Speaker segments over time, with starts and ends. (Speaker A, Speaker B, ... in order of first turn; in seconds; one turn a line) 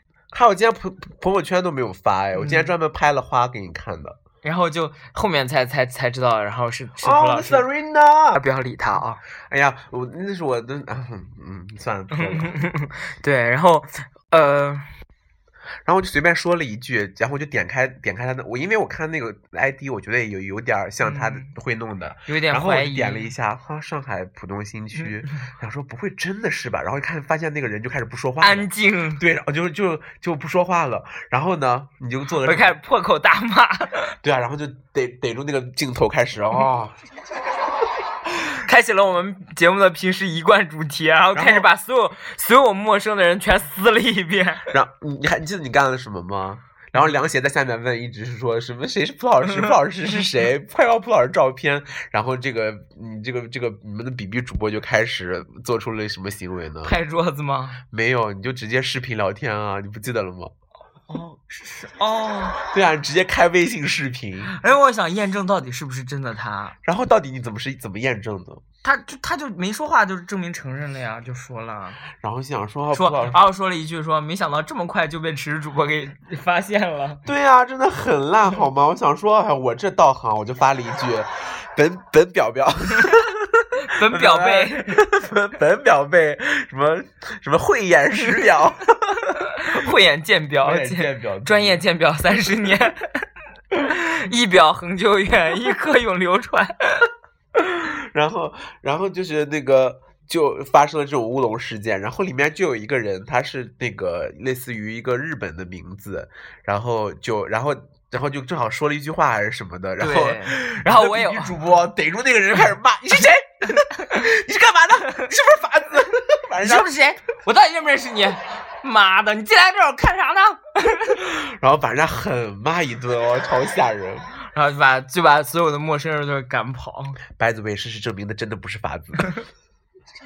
Speaker A: 0.3-4.2
Speaker B: 2.4-2.7
Speaker B: 4.4-7.7
Speaker A: 7.0-8.4
Speaker B: 8.3-9.2
Speaker A: 9.5-12.5
Speaker B: 12.2-14.9
Speaker A: 15.9-32.8
Speaker B: 21.0-21.5
Speaker B: 22.3-23.3
Speaker B: 28.4-29.2
Speaker B: 32.4-34.1
Speaker A: 34.2-37.0
Speaker B: 38.5-44.7
Speaker A: 41.3-41.7
Speaker A: 44.7-57.0
Speaker B: 56.8-57.8
Speaker A: 57.9-60.5
Speaker B: 61.1-62.6
Speaker A: 62.7-64.5
Speaker B: 64.5-66.8
Speaker A: 66.8-68.6
Speaker B: 68.8-72.0
Speaker A: 72.2-73.4
Speaker B: 72.9-77.2
Speaker A: 77.2-89.3
Speaker B: 83.8-85.0
Speaker B: 89.3-97.1
Speaker A: 90.6-91.8
Speaker A: 97.5-116.9
Speaker B: 110.0-111.6
Speaker B: 116.6-121.2
Speaker A: 121.2-124.3
Speaker B: 124.5-127.2
Speaker A: 127.3-129.4